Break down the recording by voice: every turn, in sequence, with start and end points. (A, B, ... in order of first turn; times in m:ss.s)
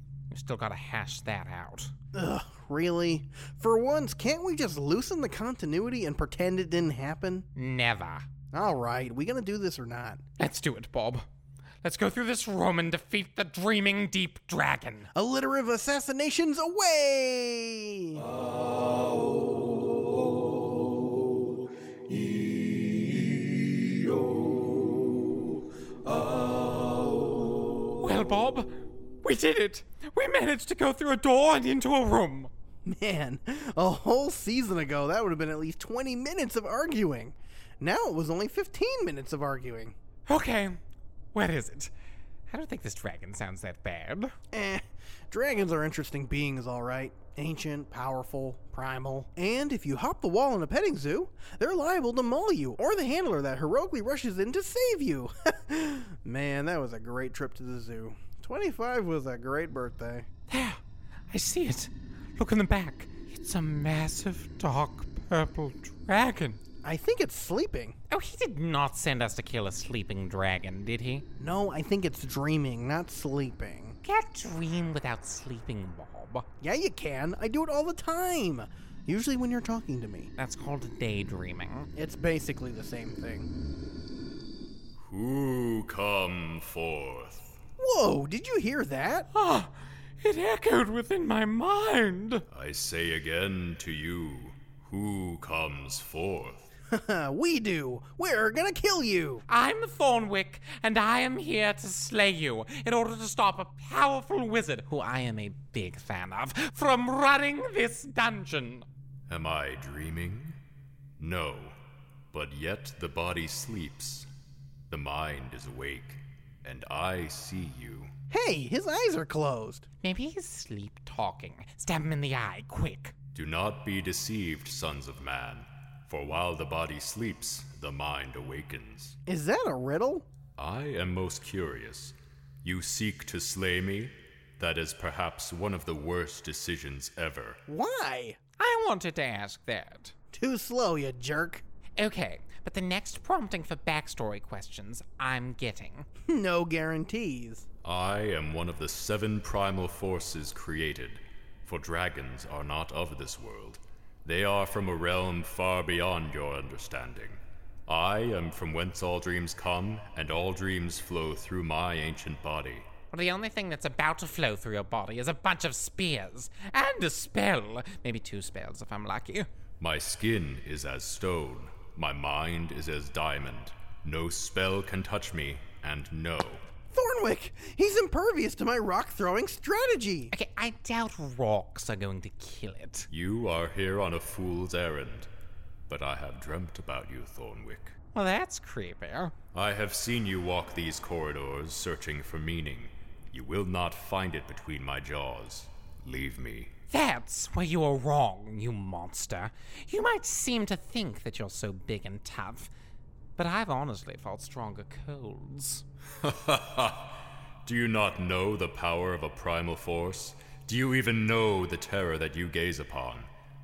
0:00.3-0:01.9 A
0:02.1-0:07.5 B
0:07.6-0:08.2 A
0:08.5-0:10.2 B
0:10.4-0:11.2 A
0:11.8-0:15.1 A
0:15.1-0:18.3 B
0:28.0-0:28.6 A
0:29.2-0:32.5 A
0:32.8-0:40.0 B
0:40.3-0:40.8 A
0:41.3-0:41.9 A
0:42.5-0:44.3 A
0:44.5-1:00.3 B
1:00.5-1:00.8 A
1:01.3-1:06.6 A
1:06.8-1:08.0 B
1:08.1-1:11.2 A
1:11.4-1:14.0 B
1:14.0-1:16.4 A
1:16.6-1:20.3 B
1:20.4-1:21.9 A
1:21.9-1:23.5 B
1:25.0-1:27.6 C
1:27.8-1:29.3 B
1:29.3-1:32.4 A
1:32.5-1:36.7 C
1:36.9-1:39.4 B
1:39.5-1:48.8 A
1:49.3-1:50.6 C
1:51.2-1:51.8 C
1:52.3-1:54.3 C
1:54.9-1:58.1 C
1:58.3-1:59.9 B
2:00.0-2:03.1 A
2:03.3-2:09.2 C
2:09.2-2:10.3 B
2:10.6-2:17.6 C
2:17.7-2:18.4 B
2:18.6-2:20.1 A
2:20.3-2:21.6 B
2:22.0-2:26.1 A
2:26.2-2:27.6 B
2:27.8-2:42.9 C
2:43.1-2:49.5 A
2:49.8-2:56.6 C
2:56.9-3:00.3 B
3:00.3-3:03.1 A
3:03.1-3:05.3 C
3:05.9-3:08.0 C
3:08.1-3:09.3 A
3:09.5-3:16.7 C
3:16.9-3:22.7 A
3:23.4-3:25.8 A
3:26.2-3:33.3 C